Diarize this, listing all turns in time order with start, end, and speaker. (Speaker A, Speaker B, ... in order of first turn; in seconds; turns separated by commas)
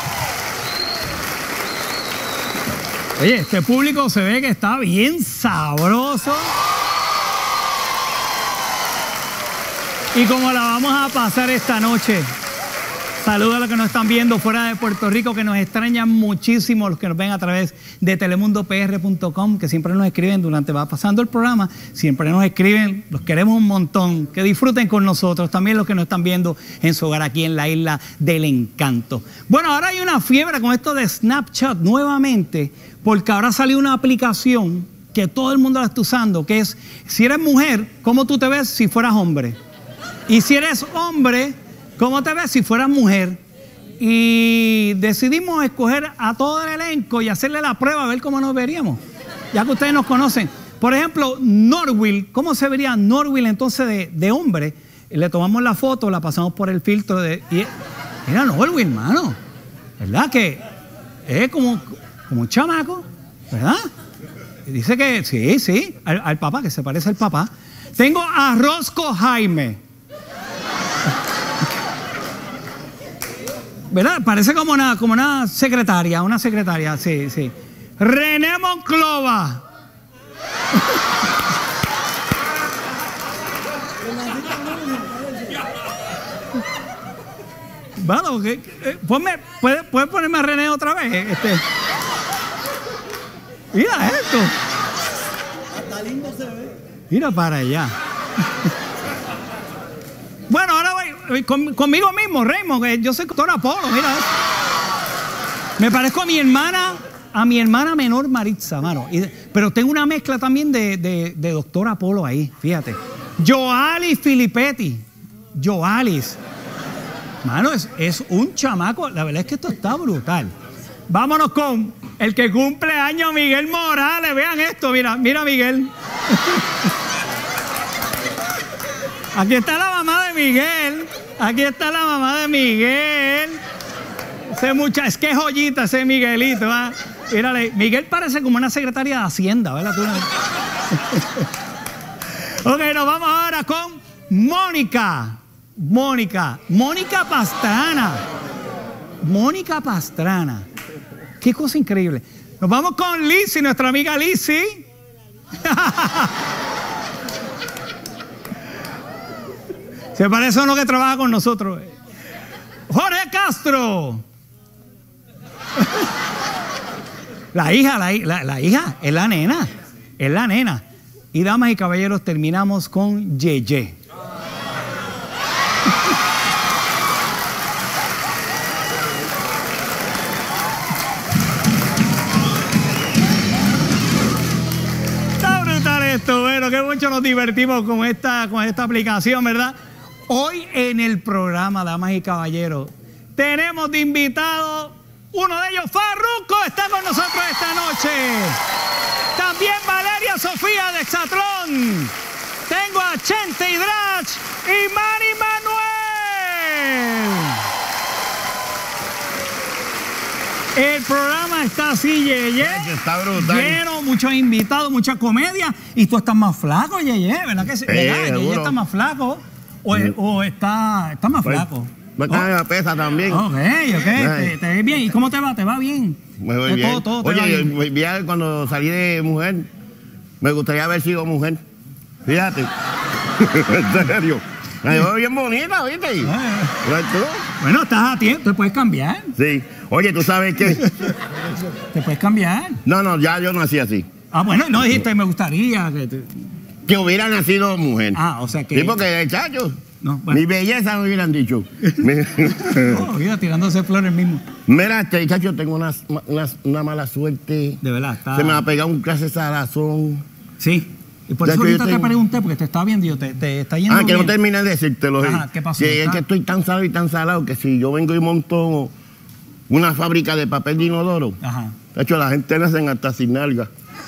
Speaker A: 3.2-6.5, Speaker A: 10.1-12.3, Speaker A: 13.2-39.6, Speaker A: 40.3-43.4, Speaker A: 44.0-49.0, Speaker A: 49.5-57.7, Speaker A: 58.2-59.4, Speaker A: 60.0-60.6, Speaker A: 61.2-63.9, Speaker A: 64.7-69.8, Speaker A: 73.9-79.6, Speaker A: 88.0-91.6, Speaker A: 93.7-94.5, Speaker A: 97.1-97.9, Speaker A: 100.5-104.3, Speaker A: 105.8-116.4, Speaker A: 117.4-120.5, Speaker A: 121.1-125.9, Speaker A: 129.3-133.6, Speaker A: 134.5-140.3, Speaker A: 141.0-141.4, Speaker A: 142.4-148.2, Speaker A: 149.2-150.7, Speaker A: 151.4-154.8, Speaker A: 155.6-156.3, Speaker A: 160.1-161.9, Speaker A: 162.9-164.2, Speaker A: 167.5-174.0, Speaker A: 185.4-189.8, Speaker A: 190.3-198.6, Speaker A: 199.3-202.1, Speaker A: 202.7-207.6, Speaker A: 210.7-222.5, Speaker B: 212.6-213.8, Speaker B: 217.9-218.8, Speaker B: 222.2-223.4, Speaker A: 223.3-227.7, Speaker B: 224.0-224.5, Speaker B: 226.4-229.7, Speaker B: 230.4-231.6, Speaker B: 232.2-232.7, Speaker B: 233.3-237.4, Speaker A: 236.2-236.7, Speaker A: 237.6-239.3, Speaker B: 239.3-240.9, Speaker A: 241.9-242.8, Speaker B: 242.8-244.1, Speaker A: 244.3-246.3, Speaker B: 246.8-248.2, Speaker A: 248.1-249.0, Speaker B: 248.7-249.8, Speaker A: 250.0-250.4, Speaker B: 250.3-253.1, Speaker A: 252.7-254.4, Speaker B: 254.7-257.8, Speaker A: 257.8-258.6, Speaker B: 258.3-260.2, Speaker A: 260.6-264.3, Speaker B: 261.4-262.1, Speaker B: 263.9-268.9, Speaker A: 265.2-266.2, Speaker B: 269.7-271.4, Speaker A: 271.4-271.8, Speaker B: 271.9-273.7